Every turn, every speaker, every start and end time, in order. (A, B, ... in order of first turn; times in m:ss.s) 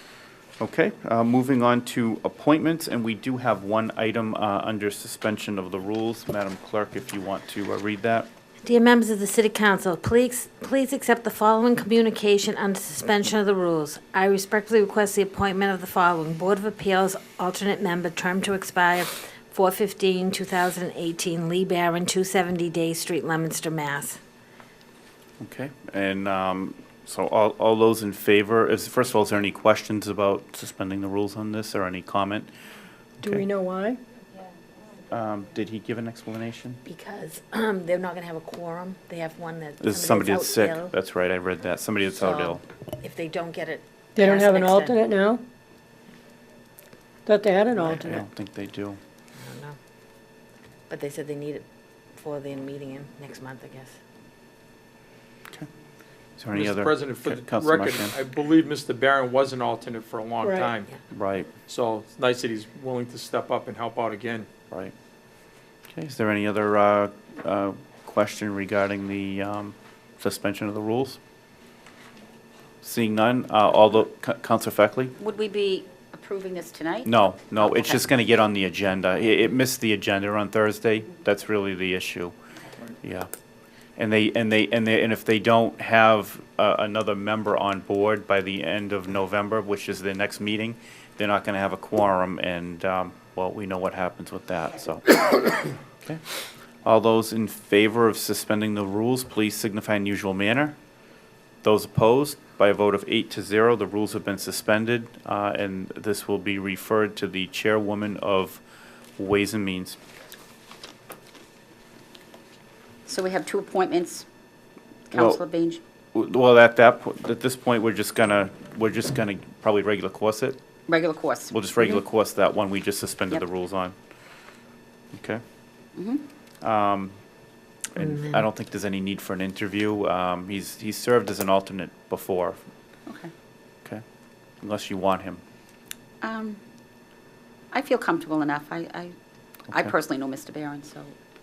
0:00.6-0:08.3 A
0:08.6-0:24.2 B
0:25.4-0:32.5 A
0:33.2-0:34.0 C
0:35.1-0:36.8 A
0:36.8-0:40.9 B
0:39.8-0:42.6 A
0:42.2-0:45.0 B
0:44.2-0:45.4 C
0:47.2-0:48.2 C
0:47.8-0:49.0 A
0:49.4-0:49.8 B
0:50.9-0:54.0 B
0:56.4-0:58.1 A
0:56.5-1:00.9 D
1:00.4-1:00.8 C
1:01.1-1:01.5 A
1:01.7-1:04.5 D
1:05.9-1:11.2 A
1:12.8-1:15.2 A
1:15.2-1:17.1 E
1:17.0-1:22.3 A
1:17.6-1:18.0 E
1:23.0-1:23.3 A
1:24.0-1:36.2 A
1:36.8-1:40.8 A
1:41.6-1:48.6 A
1:49.2-1:50.0 A
1:53.1-1:54.2 E
1:55.1-1:55.4 A
1:55.2-1:55.8 E
1:56.1-2:00.6 A
2:00.9-2:01.5 E
2:01.5-2:03.9 A
2:05.1-2:05.4 A
2:05.9-2:06.2 E
2:06.6-2:07.2 A
2:07.9-2:12.6 A
2:08.0-2:08.4 B
2:13.1-2:13.3 E
2:14.6-2:15.4 A
2:16.2-2:16.6 E
2:17.7-2:19.1 E
2:19.7-2:20.0 A
2:19.9-2:21.1 E